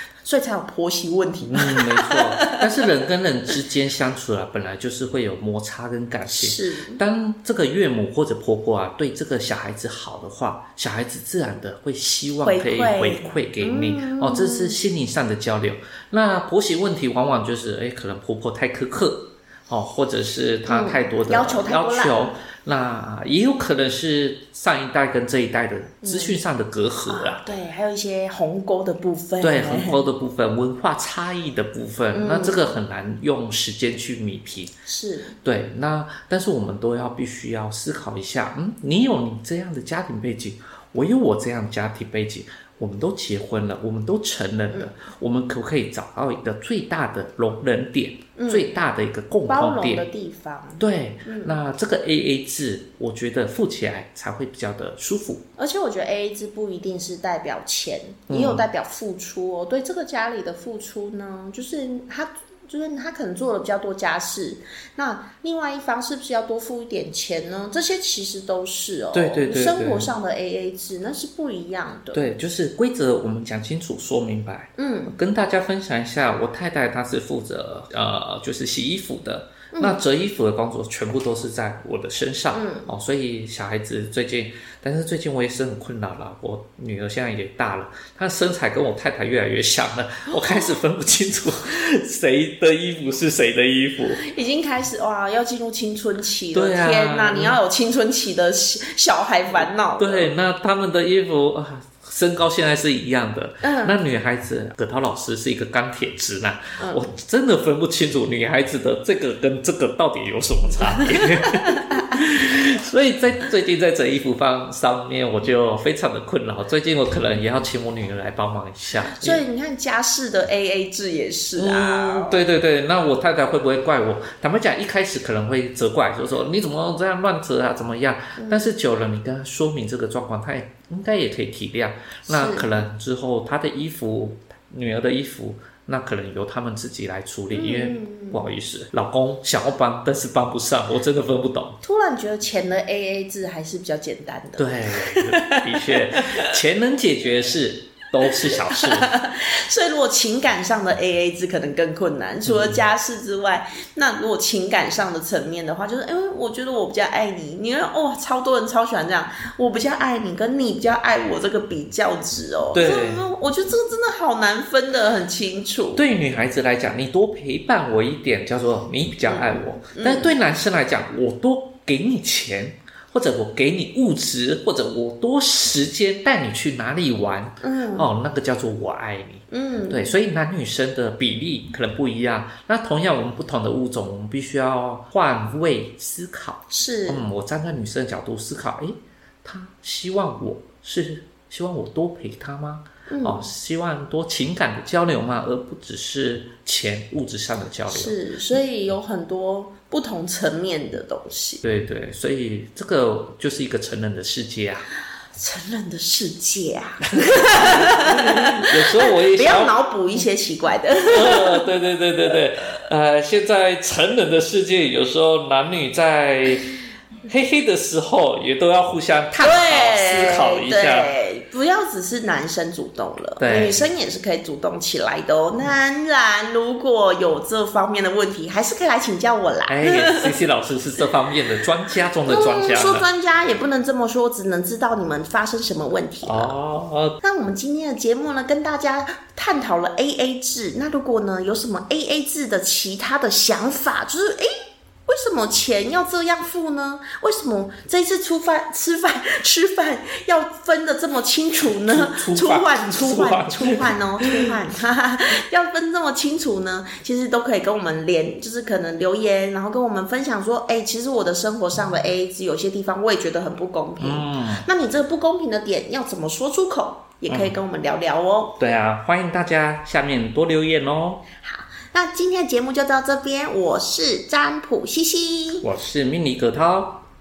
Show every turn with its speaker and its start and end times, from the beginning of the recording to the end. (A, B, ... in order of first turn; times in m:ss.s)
0:00.2-0:02.8 A
0:01.5-0:27.4 B
0:06.3-0:07.0 A
0:12.4-0:14.8 A
0:20.6-0:22.3 A
0:26.0-0:26.4 A
0:27.1-0:30.0 A
0:29.4-0:34.7 B
0:32.1-0:32.7 A
0:34.8-0:35.4 A
0:35.4-0:50.0 B
0:48.4-0:48.7 A
0:49.5-0:51.5 A
0:50.8-0:55.4 B
0:55.6-1:12.3 A
0:58.3-0:58.6 B
1:09.1-1:10.1 B
1:12.1-1:34.2 B
1:14.8-1:15.1 A
1:19.7-1:20.0 A
1:22.5-1:22.9 A
1:34.1-1:40.3 A
1:36.5-1:37.6 B
1:39.5-1:59.4 B
1:43.6-1:44.0 A
1:46.8-1:47.0 A
1:50.8-1:52.0 A
1:59.0-2:02.4 A
2:01.6-2:21.8 B
2:08.4-2:08.7 A
2:12.3-2:12.7 A
2:17.5-2:18.4 A
2:21.8-2:26.4 A
2:24.6-2:29.1 B
2:28.5-2:46.0 A
2:32.4-2:32.8 B
2:42.7-2:43.3 B
2:45.9-3:18.1 B
2:49.2-2:50.3 A
2:57.6-2:58.1 A
2:59.5-3:00.1 A
3:06.7-3:07.3 A
3:13.1-3:13.4 A
3:17.9-3:21.6 A
3:21.6-3:24.9 B
3:25.3-3:31.6 A
3:27.3-3:29.7 B
3:31.1-3:36.7 B
3:37.3-3:41.1 B
3:39.4-3:50.3 A
3:43.4-3:43.9 B
3:49.7-3:53.0 B
3:52.2-3:56.6 A
3:56.2-3:57.2 B
3:57.2-4:04.5 A
4:05.1-4:28.6 A
4:11.8-4:14.5 B
4:24.0-4:24.6 B
4:27.3-4:27.5 B
4:28.6-4:31.2 B
4:31.4-4:35.7 A
4:35.6-4:37.0 B